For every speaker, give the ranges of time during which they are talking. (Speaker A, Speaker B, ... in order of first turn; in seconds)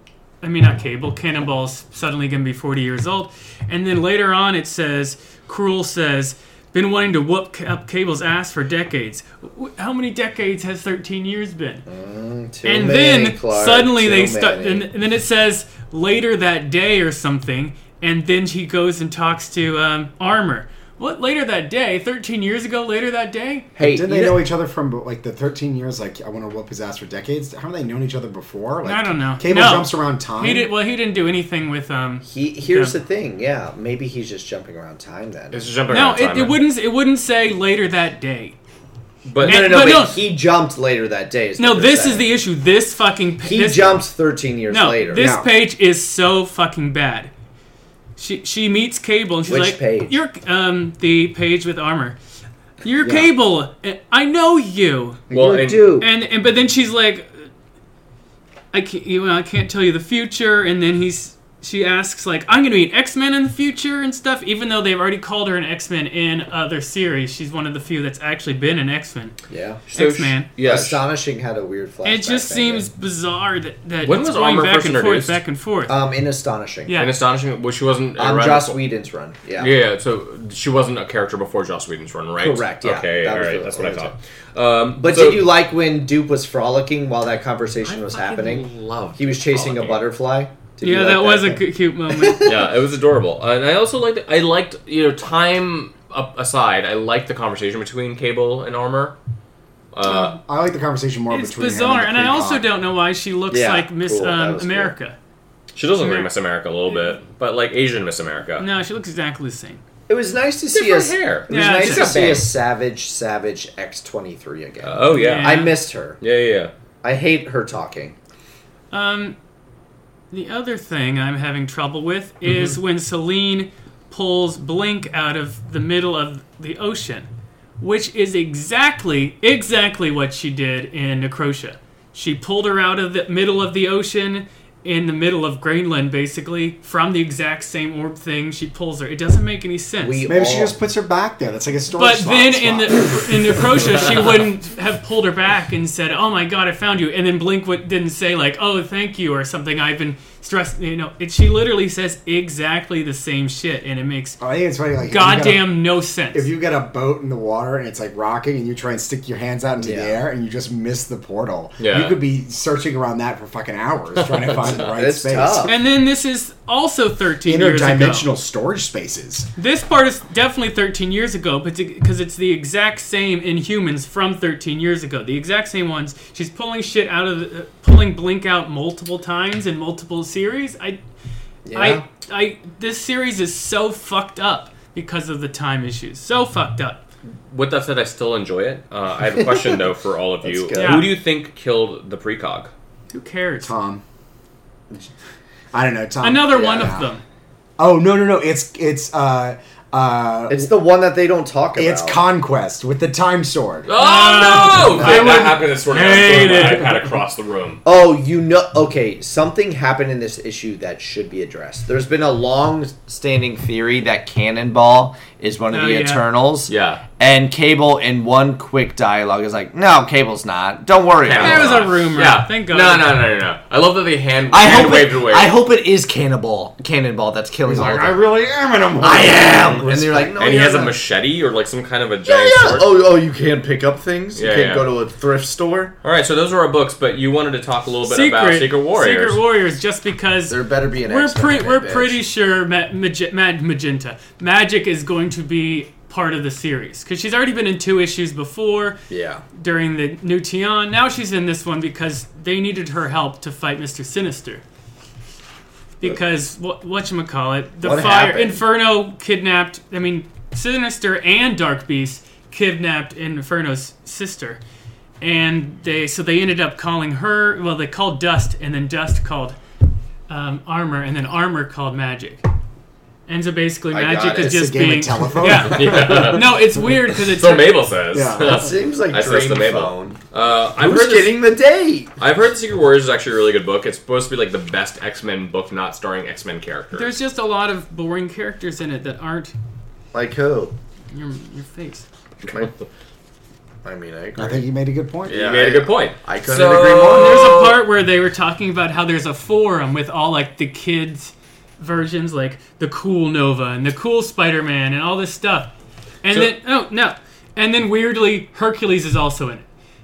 Speaker A: 0.4-11.8, 12.6-23.7, 28.9-32.9, 35.9-38.6, 39.4-40.2, 41.6-44.1, 44.7-47.3, 48.2-52.2, 52.8-55.2, 56.0-57.3, 58.7-69.4, 69.9-70.5, 72.0-76.0, 76.9-77.1, 90.8-92.5, 100.1-100.4, 101.3-105.2, 106.0-106.3, 108.6-109.8, 111.5-112.4, 115.0-115.8, 118.9-119.4, 120.3-127.3, 127.8-140.2, 141.9-154.4, 155.0-156.5, 165.7-168.3, 169.6-181.0, 181.7-187.0, 190.7-191.1, 193.1-193.7, 196.2-197.2, 203.9-207.1, 215.7-216.2, 221.3-223.2, 238.0-249.0, 249.5-254.6, 256.0-264.6, 265.2-269.6, 270.3-272.5, 273.3-277.9, 286.9-289.5, 291.1-292.1, 297.1-305.7, 306.2-309.6
Speaker B: 11.9-14.9, 23.8-24.4, 32.2-35.7, 39.4-42.3, 43.4-45.3, 49.5-50.2, 55.3-56.1, 69.5-69.9, 70.6-72.9, 75.9-77.0, 78.2-79.7, 82.4-84.2, 85.0-92.7, 103.5-105.0, 110.1-116.2, 117.0-118.2, 140.0-140.8, 159.8-160.2, 164.5-165.8, 181.7-182.0, 189.4-189.8, 190.4-191.1, 196.5-197.0, 200.5-202.2, 205.0-205.5, 207.8-221.9, 224.5-228.3, 229.0-231.0, 232.3-236.0, 240.5-242.2, 249.1-249.4, 257.8-258.6, 273.9-274.7, 278.4-280.2, 280.8-282.1, 290.1-290.8, 293.8-294.6, 295.3-297.6
Speaker C: 23.8-30.7, 45.1-45.5, 100.4-102.7, 140.2-144.2, 154.4-165.8, 167.4-169.5, 193.6-194.0, 195.7-197.1, 197.8-200.7, 201.8-203.9, 227.7-230.7, 274.3-276.5, 278.1-278.7, 294.4-295.4
Speaker D: 35.5-36.6, 39.2-39.8, 55.3-55.9, 69.9-71.0, 74.0-75.4, 77.0-78.8, 79.6-85.5, 87.8-90.0, 92.4-99.2, 99.9-100.4, 105.7-108.7, 110.7-112.5, 114.8-116.7, 122.5-122.8, 161.8-162.2, 187.5-192.7, 203.9-207.8, 216.7-217.0, 221.2-225.6, 230.4-232.9, 234.3-234.9, 236.0-239.4, 275.5-281.4, 282.2-287.2, 292.5-292.9, 295.3-297.9